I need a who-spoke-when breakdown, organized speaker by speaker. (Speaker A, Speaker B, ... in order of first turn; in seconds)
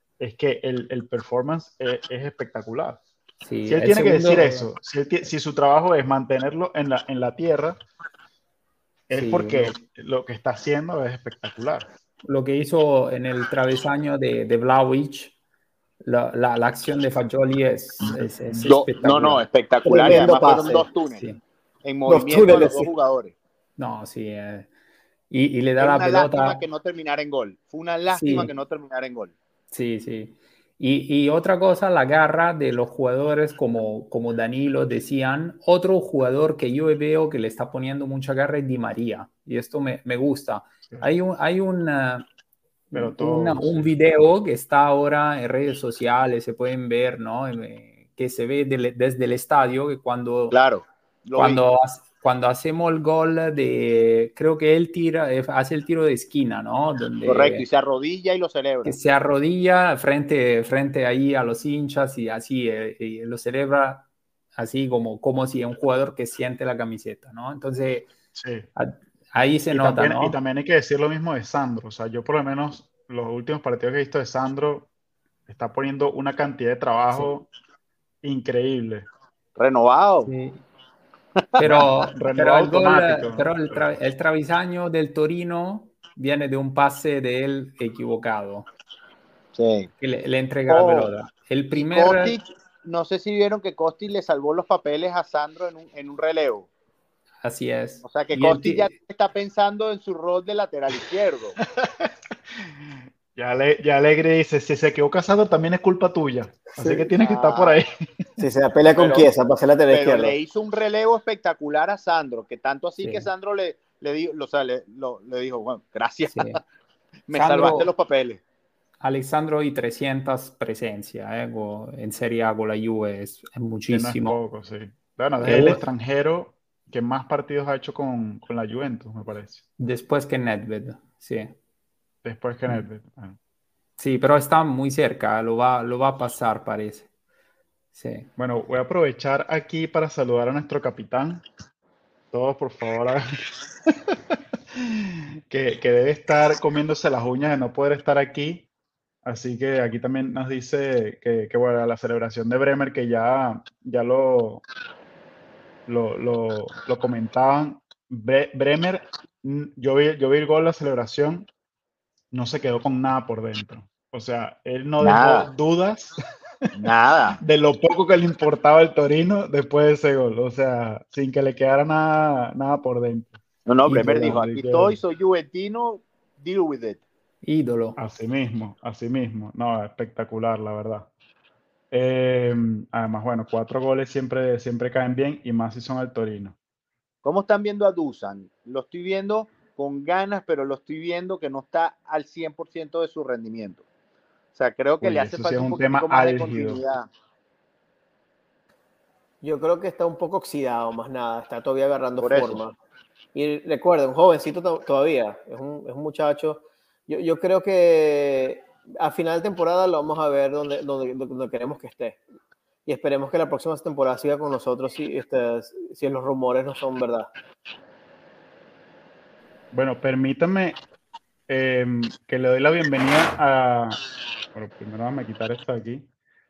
Speaker A: 0.2-3.0, 3.7-7.8, 9.1-11.9, 18.0-18.7, 42.9-43.8, 68.3-68.7, 69.7-74.9, 75.5-77.5, 78.2-79.1, 81.6-83.9, 101.8-108.2, 123.9-129.6, 132.2-133.4, 138.4-141.4, 142.3-143.2, 143.8-148.7, 149.2-154.6, 155.9-161.5, 162.3-166.1, 167.4-175.0, 178.0-181.1, 181.9-186.6, 195.0-196.8, 219.7-220.8, 221.5-224.0, 224.5-226.1
Speaker B: 3.4-4.7, 9.1-9.8, 12.2-15.3, 16.0-19.4, 23.8-24.7, 25.3-26.6, 28.1-28.5, 29.7-42.3, 42.9-50.6, 51.4-57.6, 58.8-68.1, 68.8-70.4, 80.2-80.6, 81.6-88.6, 90.0-92.4, 97.4-98.9, 113.0-113.3, 116.3-116.6, 117.3-117.9, 119.0-124.4, 125.4-125.8, 129.8-131.5, 134.0-137.1, 137.9-138.3, 177.4-178.0
Speaker C: 18.6-21.2, 21.8-23.3, 25.8-29.3, 50.5-51.6, 57.2-59.0, 79.6-80.3, 89.5-89.9, 90.7-91.1, 91.7-96.7, 98.0-101.6, 107.2-107.8, 109.0-109.3, 109.9-116.6, 117.3-118.4, 165.0-165.5, 166.7-167.4, 173.7-177.0, 187.2-193.8, 194.6-197.1, 202.2-202.6
Speaker D: 19.9-20.9, 22.1-22.9, 106.8-107.1, 108.4-110.3, 199.4-202.7, 203.3-212.2, 212.8-217.3